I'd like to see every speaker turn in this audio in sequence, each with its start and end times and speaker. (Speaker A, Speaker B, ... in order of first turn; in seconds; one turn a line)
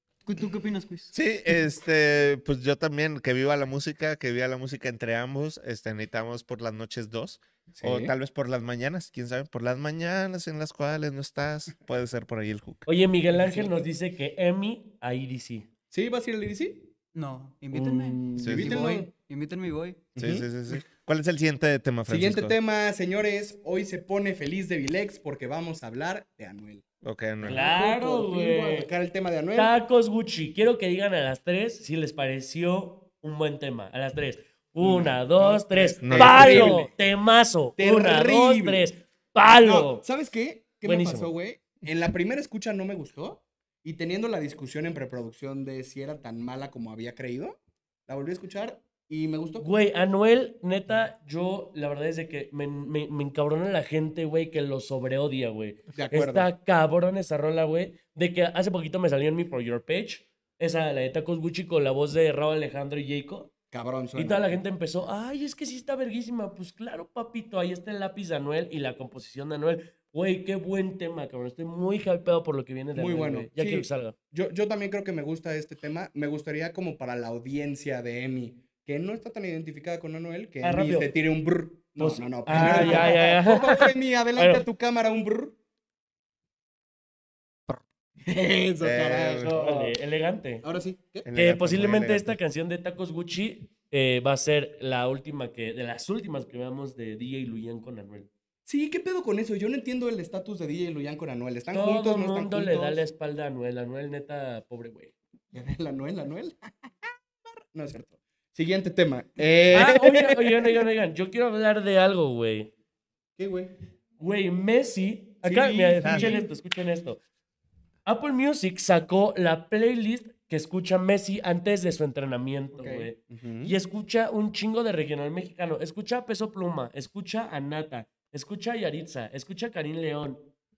Speaker A: 0.2-1.1
Speaker B: 1.1-12.9
Speaker C: 7.7-8.1
Speaker D: 12.9-15.7
Speaker C: 13.3-13.9
Speaker C: 15.9-16.9
Speaker A: 17.1-20.0
Speaker C: 18.4-19.1
Speaker B: 18.4-18.8
Speaker C: 20.1-20.8
Speaker B: 20.2-22.6
Speaker C: 22.1-26.8
Speaker B: 27.0-27.6
Speaker C: 27.4-29.7
Speaker D: 27.4-28.9
Speaker D: 29.6-40.0
Speaker C: 34.8-36.9
Speaker B: 36.0-36.8
Speaker C: 37.8-38.9
Speaker C: 39.6-49.7
Speaker D: 40.9-41.3
Speaker D: 49.6-63.5
Speaker C: 55.9-56.5
Speaker C: 63.7-64.6
Speaker D: 64.2-74.2
Speaker C: 73.0-85.6
Speaker D: 80.6-81.1
Speaker D: 82.0-84.6
Speaker C: 88.2-90.0
Speaker B: 88.8-89.6
Speaker D: 89.4-90.6
Speaker C: 90.6-91.3
Speaker B: 91.2-92.3
Speaker D: 91.3-98.3
Speaker C: 98.7-103.0
Speaker D: 101.7-105.1
Speaker C: 105.5-110.8
Speaker D: 109.7-112.7
Speaker C: 113.4-113.7
Speaker D: 114.2-117.2
Speaker C: 115.4-116.5
Speaker B: 116.0-116.4
Speaker D: 118.1-130.5
Speaker C: 122.8-123.8